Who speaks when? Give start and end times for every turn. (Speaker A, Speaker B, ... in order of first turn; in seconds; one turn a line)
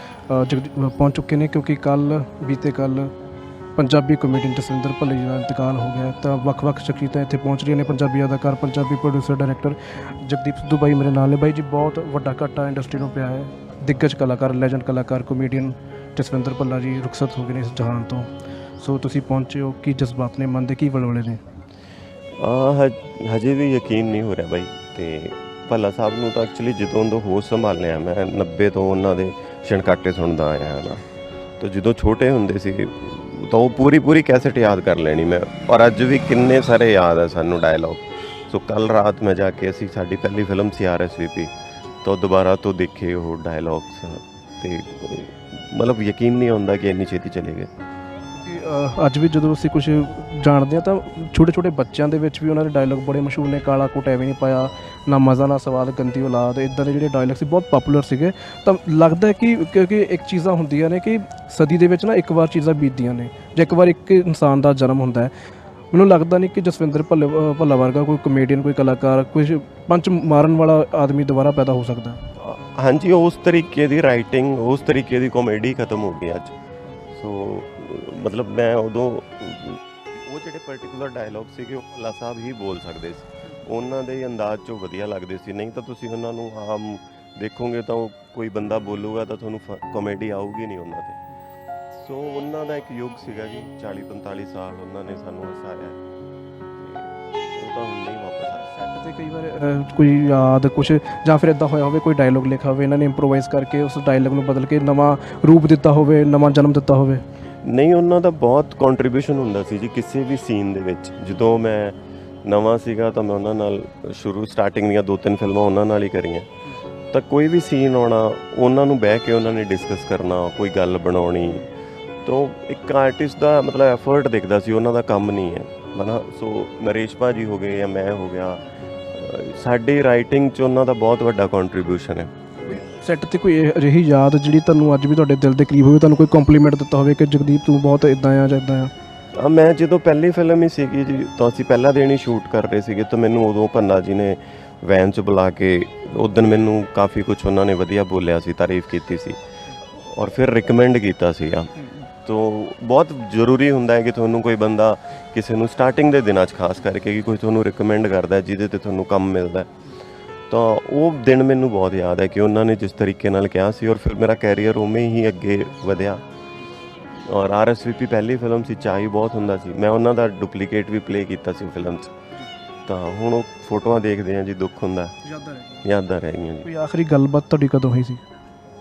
Speaker A: 0.3-3.1
Speaker A: 3.8-18.3
Speaker A: 18.8-21.4
Speaker B: 22.4-31.0
Speaker B: 31.6-41.5
Speaker B: 42.0-47.7
Speaker A: 48.4-65.3
Speaker A: 65.9-72.2
Speaker B: 72.4-76.5
Speaker B: 77.1-91.2
Speaker B: 91.9-96.0
Speaker B: 96.8-98.7
Speaker A: 98.8-107.2
Speaker B: 107.6-116.5
Speaker B: 117.1-121.7
Speaker B: 122.2-128.6
Speaker B: 129.1-132.3
Speaker A: 132.7-138.9
Speaker B: 139.4-149.4
Speaker B: 149.9-159.7
Speaker B: 160.5-166.2
Speaker B: 167.2-172.1
Speaker B: 172.8-175.1
Speaker A: 175.2-175.8
Speaker B: 175.8-176.7
Speaker A: 176.6-178.2